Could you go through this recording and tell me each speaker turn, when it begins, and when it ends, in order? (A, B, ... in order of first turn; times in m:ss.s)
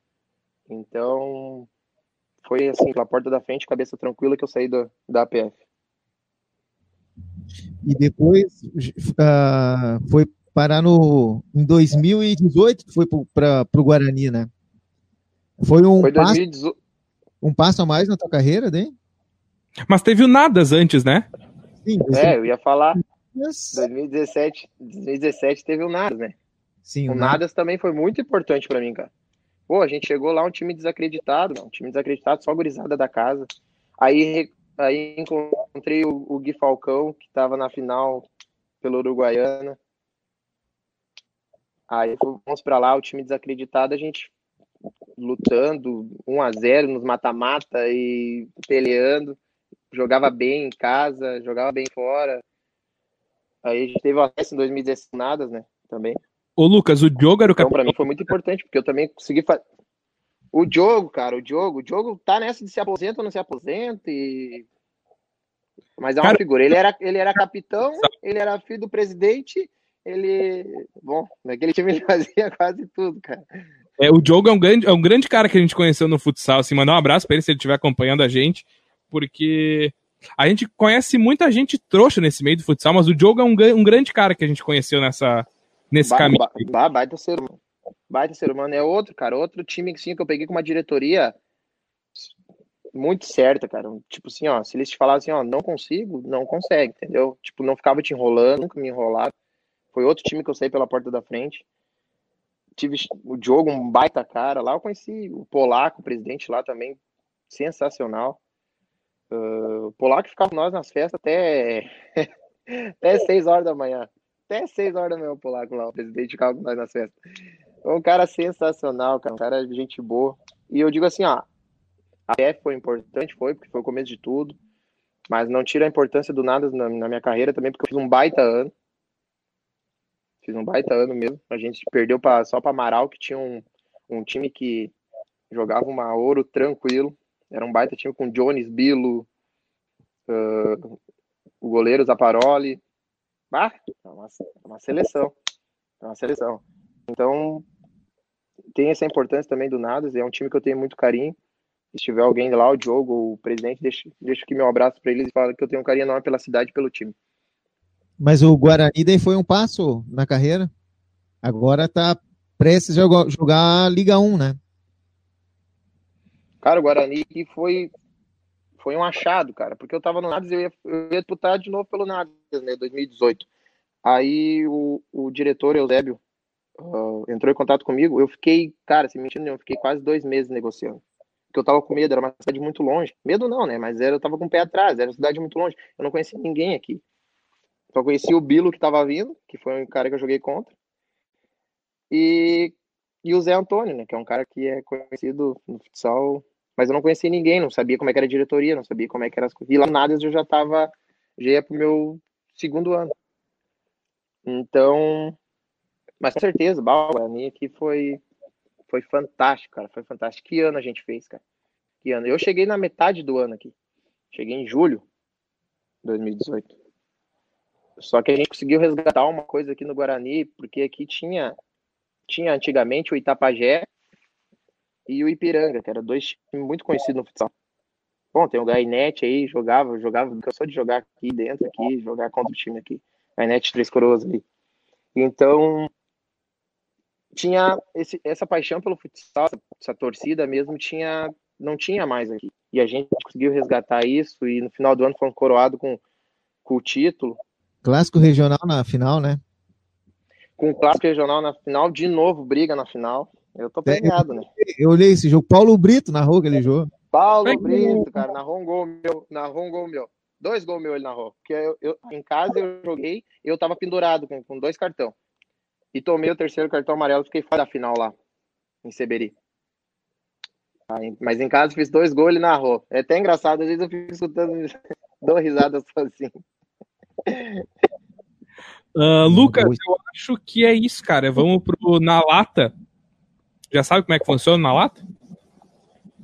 0:00.7-0:01.7 A
0:02.4-0:05.6 A
0:07.8-0:14.5 B
0:15.6-0:16.4 B
0:16.0-0:16.7 A
0:17.4-0:18.9 B
0:19.9-0:21.2 C
0:21.8-0:22.4 B
0:22.1-0:23.0 A
0:23.2-0:23.8 B
0:23.7-0:26.3 A
0:26.8-0:27.4 B
0:27.1-0:29.1 A
0:29.7-0:33.5 A
0:34.0-0:38.3 A
0:38.8-0:39.8 A
0:41.9-0:44.3 A
0:45.2-0:49.4 A
0:49.9-0:52.4 A
0:53.6-0:56.2 A
0:56.6-0:58.2 C
0:57.6-0:59.6 A
1:00.5-1:04.6 A
1:06.0-1:13.4 A
1:14.0-1:26.6 C
1:26.0-1:27.6 A
1:28.1-1:31.3 A
1:32.9-1:39.3 A
1:39.9-1:41.6 A
1:42.8-1:47.0 A
1:47.5-1:48.4 A
1:49.3-1:57.1 A
1:57.8-2:01.4 A
2:02.3-2:04.6 A
2:05.3-2:08.7 A
2:10.4-2:14.9 A
2:15.5-2:19.3 A
2:20.3-2:20.9 A
2:21.6-2:22.8 A
2:23.5-2:25.3 A
2:26.0-2:27.6 A
2:28.7-2:31.3 A
2:31.9-2:37.1 A
2:38.2-2:40.7 B
2:41.4-2:44.6 B
2:46.6-2:47.9 A
2:48.8-2:53.5 A
2:54.0-2:56.2 A
2:56.8-3:01.0 A
3:01.5-3:07.0 A
3:07.9-3:10.7 A
3:12.1-3:23.1 A
3:24.4-3:25.4 A
3:26.2-3:28.2 A
3:28.9-3:31.4 A
3:32.0-3:33.7 A
3:34.3-3:35.0 A
3:36.0-3:36.7 A
3:38.0-3:41.6 A
3:42.3-3:43.9 A
3:45.1-3:47.5 A
3:48.3-3:54.4 A
3:55.1-3:55.9 A
3:57.3-4:06.0 A
4:06.6-4:07.4 A
4:07.8-4:09.4 B
4:10.6-4:14.5 A
4:13.8-4:16.9 B
4:17.1-4:25.1 A
4:17.4-4:18.0 C
4:25.9-4:28.1 A
4:28.8-4:29.3 A
4:30.9-4:36.4 A
4:37.3-4:37.6 A
4:39.0-4:42.7 C
4:39.2-4:39.8 B
4:43.7-4:45.0 C